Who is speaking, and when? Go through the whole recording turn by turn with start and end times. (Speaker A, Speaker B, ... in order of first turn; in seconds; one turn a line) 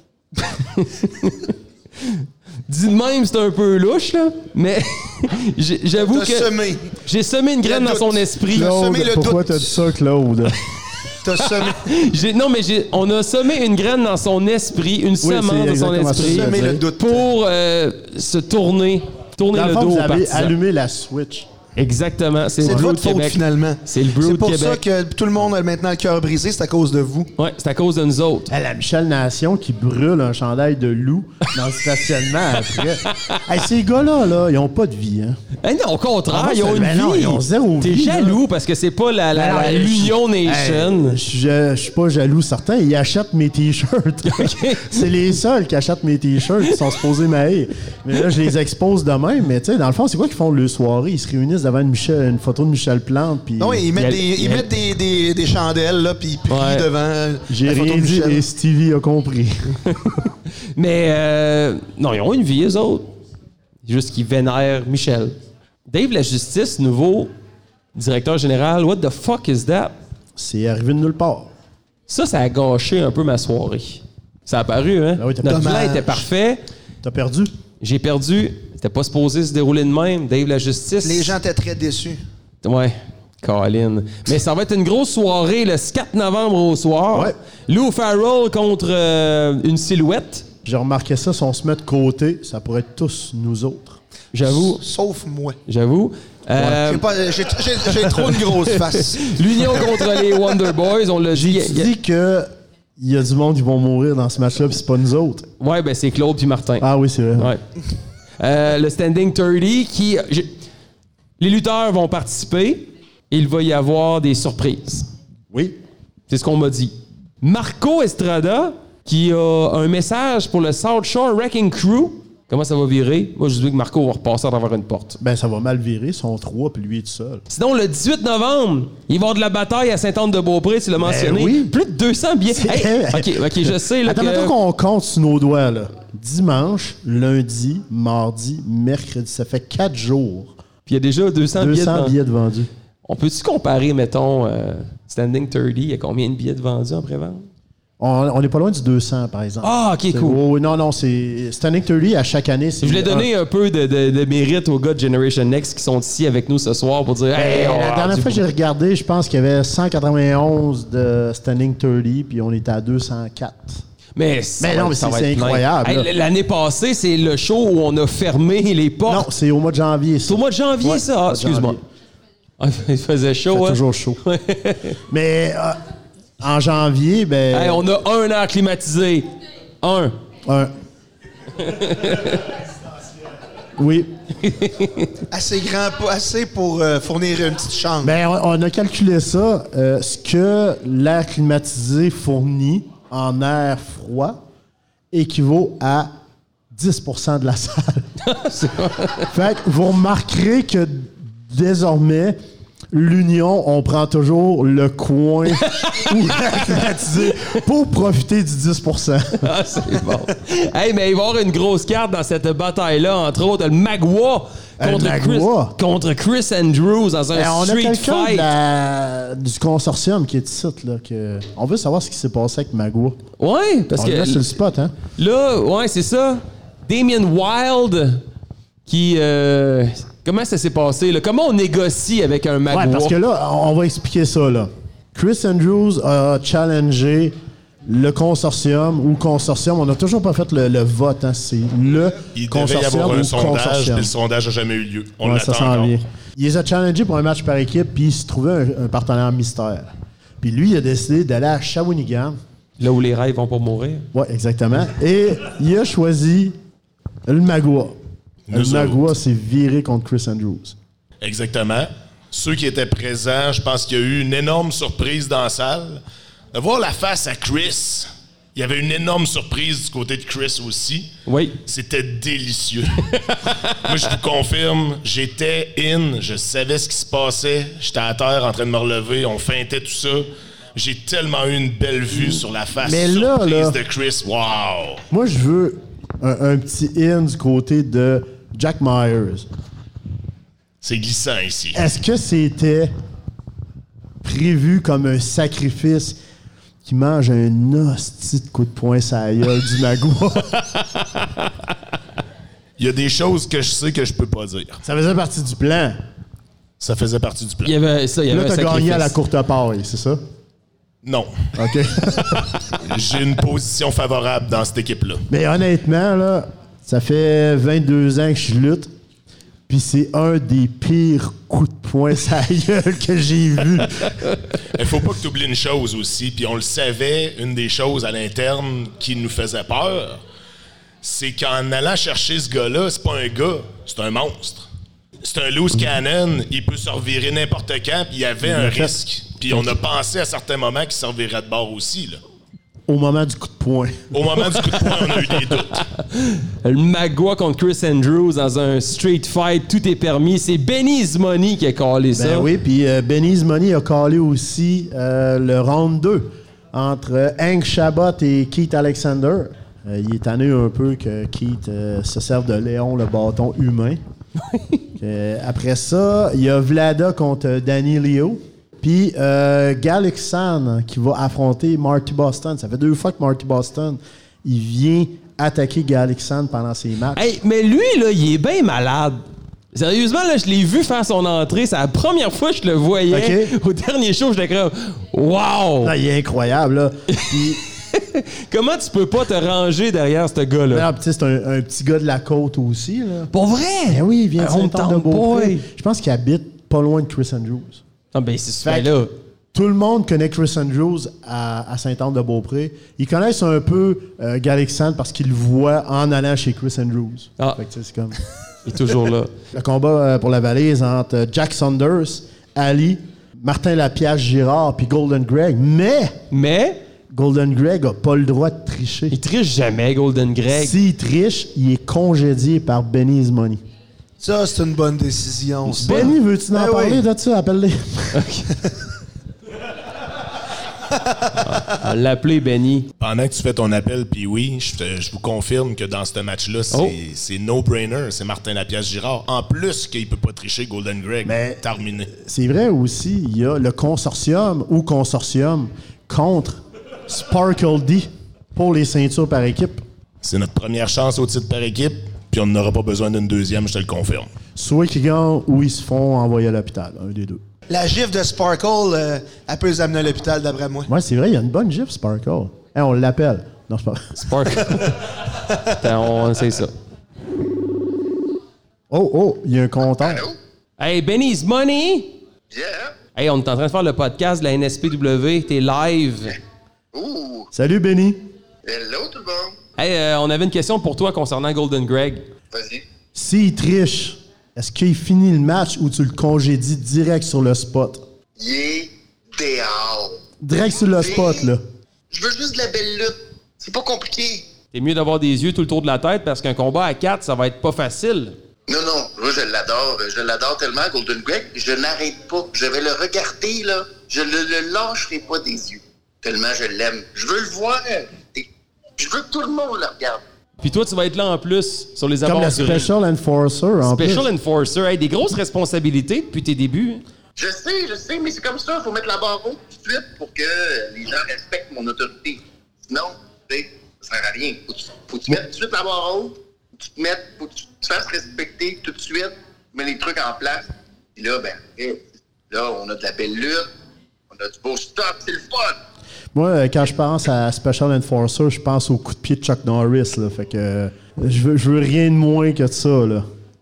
Speaker A: 0.4-6.5
Speaker B: 6.0-6.9
Speaker A: 7.0-8.9
Speaker B: 7.6-9.8
Speaker C: 8.5-10.6
Speaker B: 11.2-11.9
Speaker A: 11.4-20.5
Speaker C: 15.2-16.8
Speaker B: 16.2-17.3
Speaker C: 19.5-21.5
Speaker A: 21.8-24.8
Speaker B: 22.6-27.3
Speaker A: 27.4-28.5
Speaker C: 28.5-35.4
Speaker A: 32.7-33.4
Speaker A: 35.6-41.2
Speaker C: 36.3-38.4
Speaker C: 39.3-53.9
Speaker A: 44.2-45.1
Speaker B: 53.6-58.4
Speaker A: 54.0-54.7
Speaker A: 56.5-56.9
Speaker C: 57.5-59.8
Speaker A: 59.8-63.1
Speaker A: 63.9-65.3
Speaker A: 65.9-67.3
Speaker A: 67.9-69.9
Speaker C: 70.3-71.5
Speaker A: 72.1-76.6
Speaker C: 75.2-75.9
Speaker B: 75.4-76.2
Speaker C: 77.0-77.5
Speaker A: 77.8-81.3
Speaker B: 81.0-82.2
Speaker A: 82.6-90.5
Speaker C: 90.6-94.0
Speaker A: 94.3-94.8
Speaker B: 94.5-95.6
Speaker A: 95.7-97.0
Speaker B: 96.6-99.9
Speaker A: 97.8-101.9
Speaker C: 101.3-105.5
Speaker A: 105.6-107.6
Speaker C: 106.8-107.5
Speaker A: 108.4-110.5
Speaker A: 111.4-115.1
Speaker C: 115.5-115.8
Speaker A: 116.3-125.2
Speaker C: 125.2-127.4
Speaker A: 127.5-134.5
Speaker C: 131.0-131.7
Speaker C: 132.5-140.6
Speaker A: 140.8-142.1
Speaker C: 141.6-142.7
Speaker A: 143.1-147.4
Speaker C: 148.0-153.3
Speaker A: 149.6-150.4
Speaker A: 152.8-158.4
Speaker C: 157.3-163.8
Speaker A: 164.2-169.3
Speaker C: 164.6-166.1
Speaker C: 169.1-171.8
Speaker A: 170.2-171.8
Speaker A: 172.6-175.0
Speaker C: 173.5-174.2
Speaker C: 175.1-175.8
Speaker C: 176.4-177.9
Speaker A: 177.5-179.3
Speaker A: 179.8-180.1
Speaker C: 180.4-180.7
Speaker A: 181.6-182.5
Speaker C: 183.8-184.1
Speaker A: 184.4-185.1
Speaker B: 185.3-188.1
Speaker C: 188.0-194.4
Speaker C: 195.1-196.1
Speaker C: 196.7-198.1
Speaker A: 198.2-199.3
Speaker C: 199.3-202.4
Speaker C: 202.9-210.0
Speaker A: 205.6-207.6
Speaker A: 209.4-218.5
Speaker C: 214.8-215.7
Speaker C: 217.3-223.2
Speaker A: 223.4-224.4
Speaker C: 223.9-224.9
Speaker A: 225.1-228.2
Speaker A: 228.9-233.1
Speaker C: 232.7-244.1
Speaker D: 242.3-246.0
Speaker C: 245.2-249.9
Speaker C: 250.4-252.4
Speaker A: 252.8-254.1
Speaker C: 254.1-256.5
Speaker C: 257.3-258.0
Speaker D: 258.5-259.0
Speaker C: 258.5-260.8
Speaker D: 261.2-266.0
Speaker D: 266.5-271.1
Speaker A: 271.2-271.6
Speaker D: 271.6-285.0
Speaker C: 282.8-283.8
Speaker C: 285.1-289.5
Speaker D: 290.8-291.8
Speaker C: 291.7-292.9
Speaker C: 294.2-296.2
Speaker C: 296.8-300.6
Speaker A: 300.7-301.4
Speaker D: 302.8-304.8
Speaker C: 304.8-306.0
Speaker D: 306.8-307.7
Speaker A: 307.6-309.1
Speaker C: 308.3-310.2
Speaker D: 311.0-311.3
Speaker C: 311.6-312.6
Speaker D: 312.8-315.2
Speaker C: 315.3-318.9
Speaker C: 319.7-324.1
Speaker D: 324.7-330.2
Speaker D: 331.0-334.7
Speaker D: 335.2-342.2
Speaker C: 338.4-338.9
Speaker C: 339.5-339.8
Speaker C: 342.9-345.2
Speaker D: 344.1-345.8
Speaker A: 345.8-352.5
Speaker C: 352.1-364.0
Speaker A: 364.4-364.8
Speaker C: 364.9-377.3
Speaker A: 377.1-379.2
Speaker A: 379.7-385.9
Speaker C: 383.1-383.5
Speaker C: 385.8-387.6
Speaker A: 387.1-390.9
Speaker C: 390.7-393.3
Speaker A: 393.3-395.6
Speaker C: 393.9-397.8
Speaker A: 398.1-399.1
Speaker C: 398.6-398.9
Speaker C: 399.5-408.2
Speaker A: 408.6-409.3
Speaker C: 409.5-416.2
Speaker A: 416.3-416.8
Speaker C: 417.1-419.1
Speaker A: 419.1-420.8
Speaker C: 420.5-423.6
Speaker B: 424.2-427.0
Speaker C: 425.7-428.3
Speaker A: 425.8-426.1
Speaker A: 428.1-428.5
Speaker A: 431.4-432.9
Speaker D: 433.0-442.1
Speaker A: 436.7-436.9
Speaker C: 441.2-449.8
Speaker D: 450.2-454.3
Speaker C: 454.5-457.4
Speaker B: 457.7-460.9
Speaker C: 460.9-464.8
Speaker A: 464.1-466.7
Speaker C: 468.9-470.2
Speaker E: 470.0-470.4
Speaker A: 470.8-472.1
Speaker E: 472.5-472.9
Speaker A: 473.1-476.4
Speaker E: 476.9-477.5
Speaker C: 477.5-478.2
Speaker E: 478.6-479.6
Speaker A: 479.8-482.2
Speaker E: 482.5-482.8
Speaker C: 483.1-488.0
Speaker E: 488.4-490.2
Speaker C: 490.4-491.6
Speaker E: 490.9-491.5
Speaker E: 492.1-494.4
Speaker A: 494.7-498.3
Speaker E: 498.7-508.4
Speaker E: 509.0-510.2
Speaker A: 510.6-512.9
Speaker C: 512.2-514.3
Speaker A: 513.8-517.0
Speaker E: 517.4-533.7
Speaker E: 534.3-535.8
Speaker C: 536.3-543.2